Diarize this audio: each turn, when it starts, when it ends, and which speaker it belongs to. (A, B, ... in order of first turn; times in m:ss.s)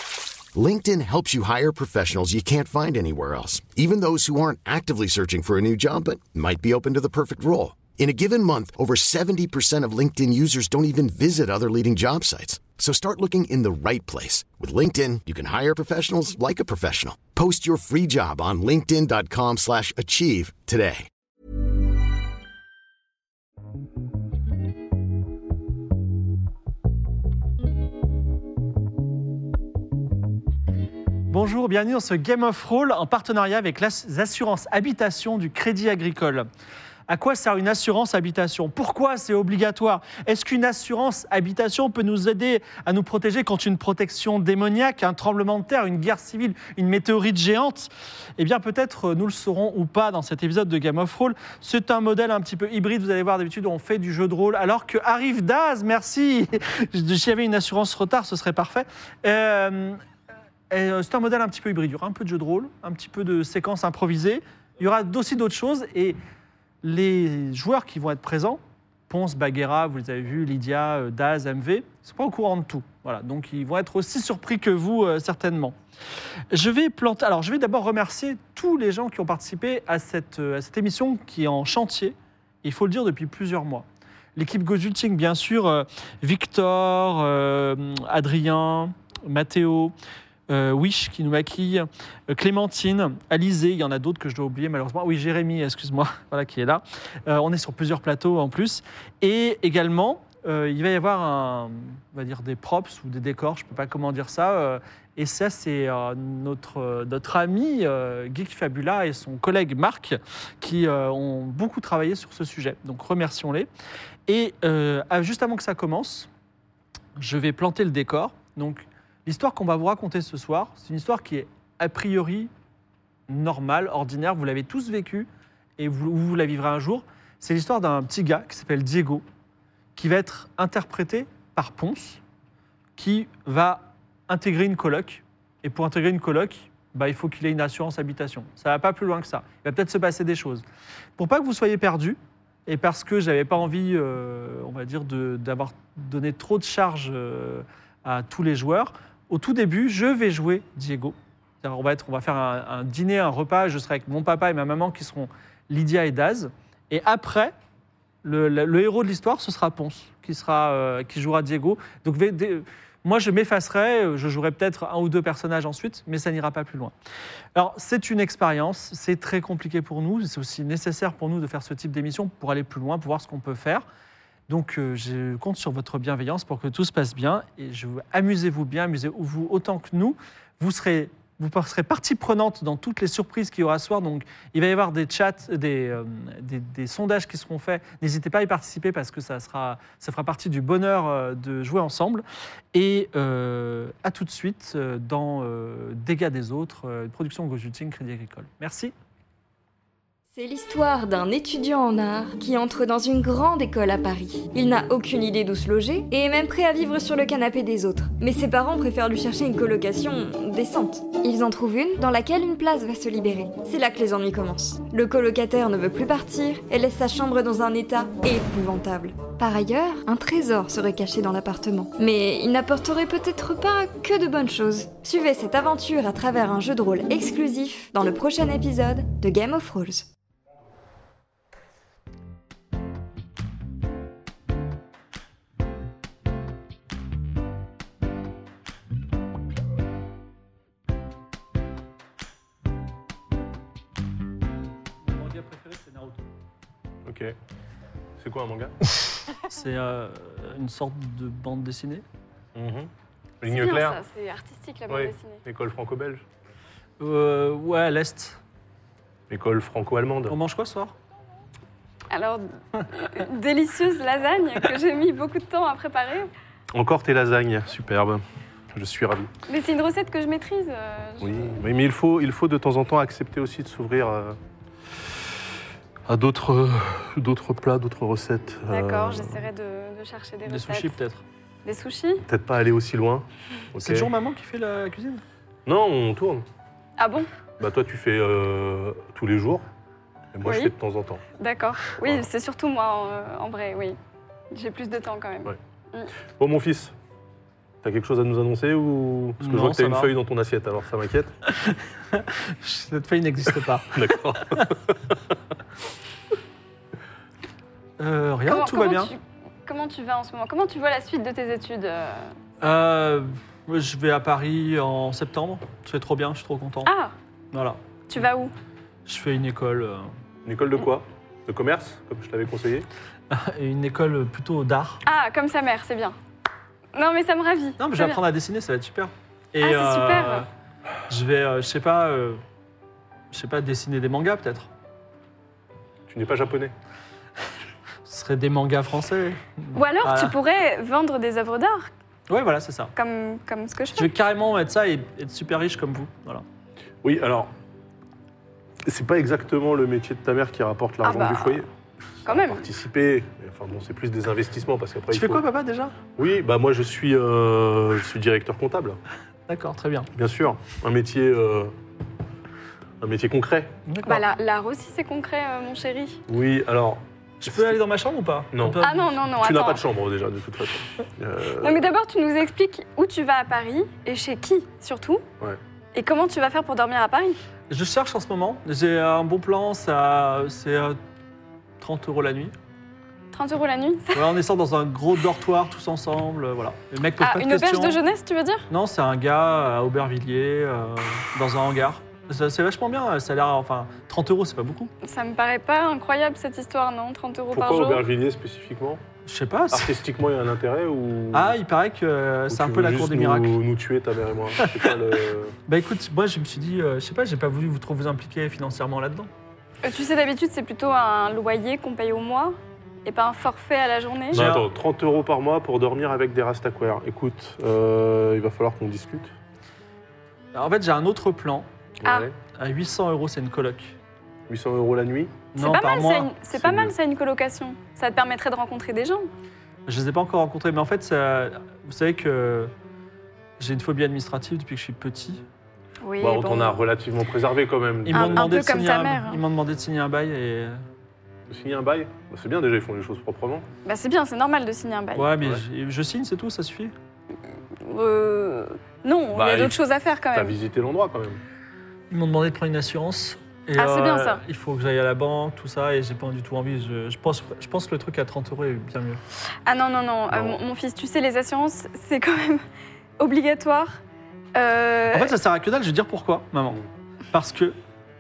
0:00.6-0:21.1 A
0:31.3-0:36.5 B
0:37.1-1:00.0 B
1:00.7-1:06.2 B
1:06.8-1:15.8 B
1:16.5-1:23.8 B
1:24.4-1:29.9 B
1:30.5-1:53.7 B
1:54.3-1:56.3 B
1:57.2-2:02.5 B
2:03.3-2:09.2 B
2:10.0-2:12.2 B
2:13.0-2:20.6 B
2:21.2-2:37.5 B
2:38.2-2:46.9 B
2:47.6-2:53.8 B
2:54.5-3:18.9 B
3:20.3-3:50.1 C
4:05.1-4:06.2 B
4:07.1-4:07.4 D
4:08.2-4:08.8 D
4:09.5-4:12.0 B
4:12.6-4:12.9 D
4:13.4-4:14.0 D
4:13.4-4:15.4 E
4:14.9-4:16.2 D
4:17.0-4:18.4 B
4:19.3-4:20.4 D
4:20.3-4:20.9 B
4:22.1-4:26.3 E
4:26.7-4:28.2 D
4:28.7-4:29.3 D
4:29.5-4:31.6 E
4:31.2-4:34.4 D
4:36.1-4:39.4 D
4:38.7-4:41.0 E
4:40.5-4:41.2 B
4:41.6-4:42.3 E
4:42.3-4:44.1 D
4:43.8-4:45.2 B
4:45.7-4:46.4 D
4:47.0-4:47.3 E
4:47.6-4:49.6 D
4:50.3-4:51.2 D
4:50.4-4:50.7 E
4:51.4-4:54.0 E
4:54.5-4:56.1 E
4:56.4-4:56.9 D
4:57.8-5:01.3 D
4:59.4-5:00.1 B
5:01.6-5:04.7 B
5:03.9-5:05.2 D
5:08.0-5:09.1 B
5:08.5-5:12.3 E
5:12.6-5:16.9 B
5:16.9-5:17.1 E
5:17.5-5:17.8 B
5:18.1-5:18.5 E
5:19.1-5:20.1 B
5:20.4-5:22.9 D
5:23.3-5:25.0 B
5:25.0-5:26.2 E
5:26.9-5:28.2 E
5:27.8-5:30.5 B
5:29.6-5:30.5 E
5:31.1-5:32.4 B
5:33.3-5:34.7 B
5:36.1-5:36.7 D
5:38.1-5:40.4 B
5:39.7-5:41.9 E
5:42.3-5:42.9 B
5:43.0-5:44.1 E
5:44.0-5:46.4 B
5:47.0-5:47.5 D
5:48.9-5:51.7 D
5:51.0-5:51.6 E
5:52.2-5:52.7 E
5:52.2-5:55.4 D
5:55.1-5:56.0 B
5:56.2-5:59.0 D
5:59.5-6:00.1 B
6:00.2-6:01.7 D
6:03.0-6:03.8 D
6:03.9-6:04.2 B
6:04.0-6:06.2 E
6:06.3-6:07.8 D
6:07.4-6:09.2 B
6:08.5-6:11.9 D
6:08.8-6:09.8 E
6:11.6-6:15.2 E
6:16.0-6:17.4 E
6:17.7-6:21.0 B
6:21.8-6:22.6 B
6:23.3-6:24.4 E
6:24.1-6:28.0 B
6:27.2-6:28.7 E
6:28.7-6:34.9 B
6:35.0-6:38.1 E
6:37.5-6:39.0 D
6:39.3-6:39.9 B
6:39.7-6:41.6 D
6:41.3-6:43.6 B
6:42.5-6:45.5 D
6:45.7-6:49.3 B
6:49.8-6:54.4 E
6:54.3-6:59.3 D
6:54.3-6:54.7 B
7:00.5-7:01.7 B
7:02.0-7:02.3 D
7:02.0-7:02.3 E
7:02.6-7:04.0 B
7:04.5-7:05.5 D
7:05.5-7:06.4 B
7:05.6-7:09.3 E
7:06.6-7:06.9 D
7:09.9-7:12.7 B
7:13.6-7:15.4 B
7:16.0-7:16.9 E
7:16.2-7:18.8 D
7:18.0-7:20.8 B
7:18.1-7:19.4 E
7:21.5-7:23.7 D
7:23.8-7:25.4 E
7:25.2-7:26.9 B
7:27.8-7:30.6 E
7:29.3-7:29.8 D
7:30.3-7:31.4 D
7:32.1-7:39.2 B
7:33.8-7:34.4 E
7:39.7-7:42.6 E
7:40.3-7:40.6 D
7:43.2-7:44.0 E
7:44.6-7:45.4 E
7:45.1-7:46.8 B
7:47.3-7:47.8 B